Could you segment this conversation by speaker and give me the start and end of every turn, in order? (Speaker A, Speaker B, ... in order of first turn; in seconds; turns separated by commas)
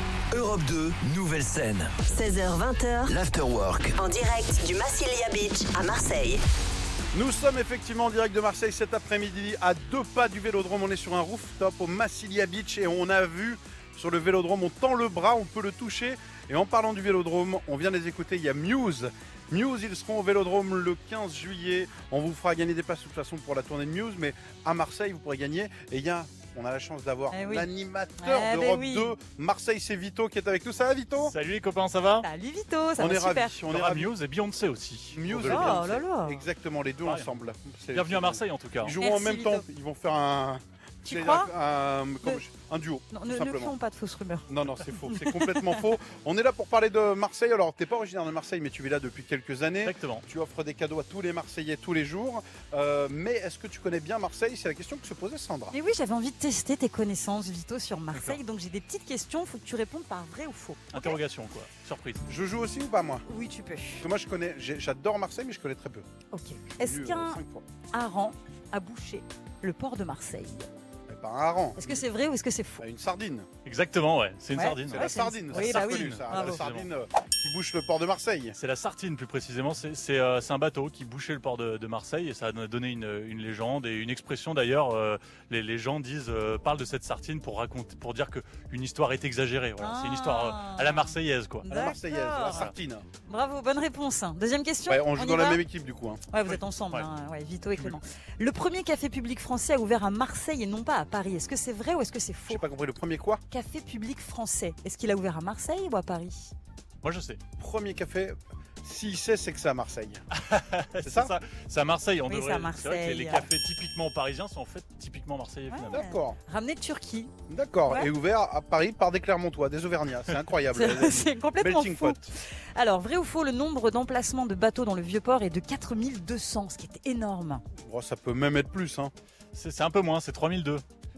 Speaker A: 0.3-2.2, Speaker B: 2.1-3.1, Speaker A: 3.1-4.0, Speaker B: 4.0-6.4, Speaker C: 7.1-31.4, Speaker D: 27.3-27.7, Speaker D: 28.2-29.1, Speaker E: 31.1-32.3, Speaker D: 32.2-33.5, Speaker C: 33.0-34.1, Speaker E: 33.6-35.9, Speaker C: 35.1-43.7, Speaker D: 35.4-36.4, Speaker E: 37.0-37.3, Speaker E: 37.9-38.9, Speaker D: 39.0-39.6, Speaker D: 41.1-41.5, Speaker D: 43.1-44.5, Speaker C: 44.5-55.7, Speaker D: 45.0-45.8, Speaker E: 49.8-50.2, Speaker D: 55.7-61.2, Speaker E: 58.1-58.4, Speaker E: 60.9-62.2, Speaker C: 62.3-63.2, Speaker D: 63.2-64.1, Speaker C: 64.0-66.1, Speaker D: 66.3-67.4, Speaker C: 66.8-67.6, Speaker D: 67.9-70.7, Speaker C: 71.1-72.0, Speaker D: 71.8-72.8, Speaker C: 72.8-73.5, Speaker E: 73.6-76.9, Speaker D: 74.5-76.6, Speaker C: 74.9-78.6, Speaker E: 78.5-91.7, Speaker D: 89.8-92.7, Speaker C: 91.7-93.1, Speaker D: 93.3-95.6, Speaker C: 94.9-96.3, Speaker D: 96.3-102.6, Speaker E: 96.4-97.1, Speaker C: 102.5-103.4, Speaker D: 103.5-106.5, Speaker E: 107.0-107.4, Speaker C: 107.6-110.2, Speaker E: 110.3-116.1, Speaker C: 111.0-111.3, Speaker D: 112.3-113.5, Speaker D: 115.7-117.3, Speaker C: 115.9-116.4, Speaker C: 117.5-122.3, Speaker D: 120.7-127.6, Speaker C: 127.9-129.1, Speaker E: 129.5-130.8